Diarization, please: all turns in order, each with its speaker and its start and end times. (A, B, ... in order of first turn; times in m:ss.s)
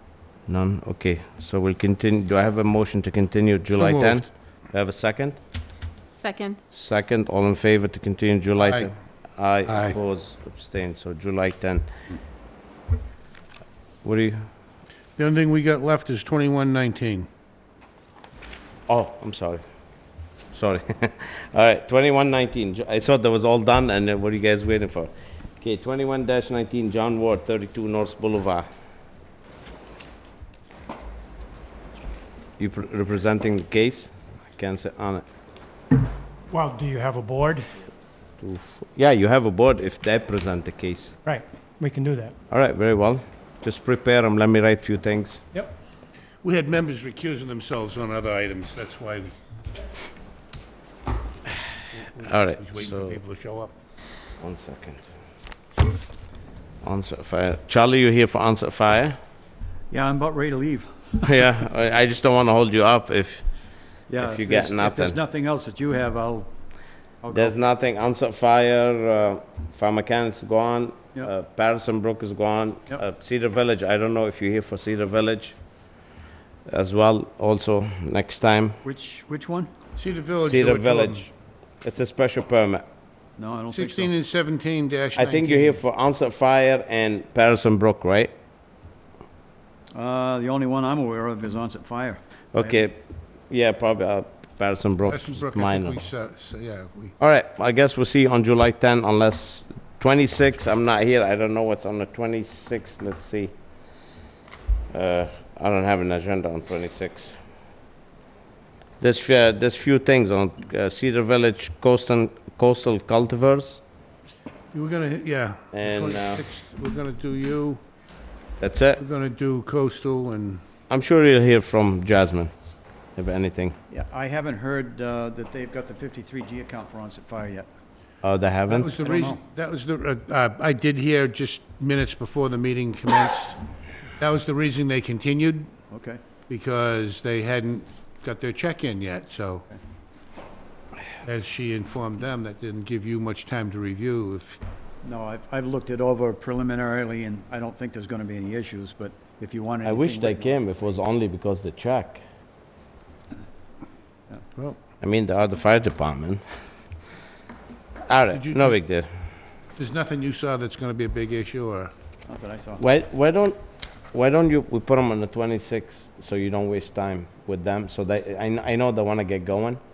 0:00.5-0:05.4 A
0:03.7-0:04.2 B
0:06.7-0:11.9 A
0:08.6-0:08.9 B
0:14.0-0:14.4 A
0:15.2-0:17.3 B
0:18.9-0:19.6 A
0:20.5-0:28.6 A
0:32.6-0:35.2 A
0:36.5-0:37.7 C
0:38.4-0:41.2 A
0:41.2-0:42.3 C
0:42.5-0:45.4 A
0:46.4-0:49.3 B
0:52.0-0:53.7 B
0:52.2-0:53.2 A
0:54.4-0:55.1 A
0:56.8-0:59.2 A
0:59.9-1:01.2 D
1:01.2-1:03.4 A
1:04.1-1:06.5 D
1:04.2-1:05.2 A
1:07.2-1:07.6 D
1:07.3-1:15.6 A
1:16.7-1:18.8 A
1:18.8-1:19.7 D
1:20.0-1:21.2 B
1:20.4-1:21.3 A
1:21.8-1:22.8 A
1:23.4-1:24.1 D
1:23.7-1:25.8 B
1:25.2-1:28.3 A
1:29.9-1:32.8 D
1:32.5-1:36.0 A
1:35.1-1:37.2 B
1:37.2-1:43.5 A
1:44.9-1:47.4 A
1:49.0-1:53.8 A
1:54.7-1:57.8 B
1:55.7-1:56.4 A
1:58.6-1:59.0 A
1:59.0-2:00.6 B
2:00.9-2:02.5 A
2:03.2-2:03.8 A
2:03.9-2:07.7 D
2:08.2-2:08.9 A
2:08.7-2:13.6 B
2:09.0-2:09.4 D
2:14.2-2:15.7 B
2:15.9-2:16.2 D
2:16.5-2:19.6 B
2:21.2-2:24.6 B
2:25.0-2:30.5 D
2:29.8-2:32.2 A
2:35.0-2:36.4 A
2:38.1-2:39.1 A
2:38.3-2:38.8 B
2:39.8-2:41.9 B
2:42.3-2:42.8 D
2:42.8-2:43.6 A
2:44.1-2:49.8 A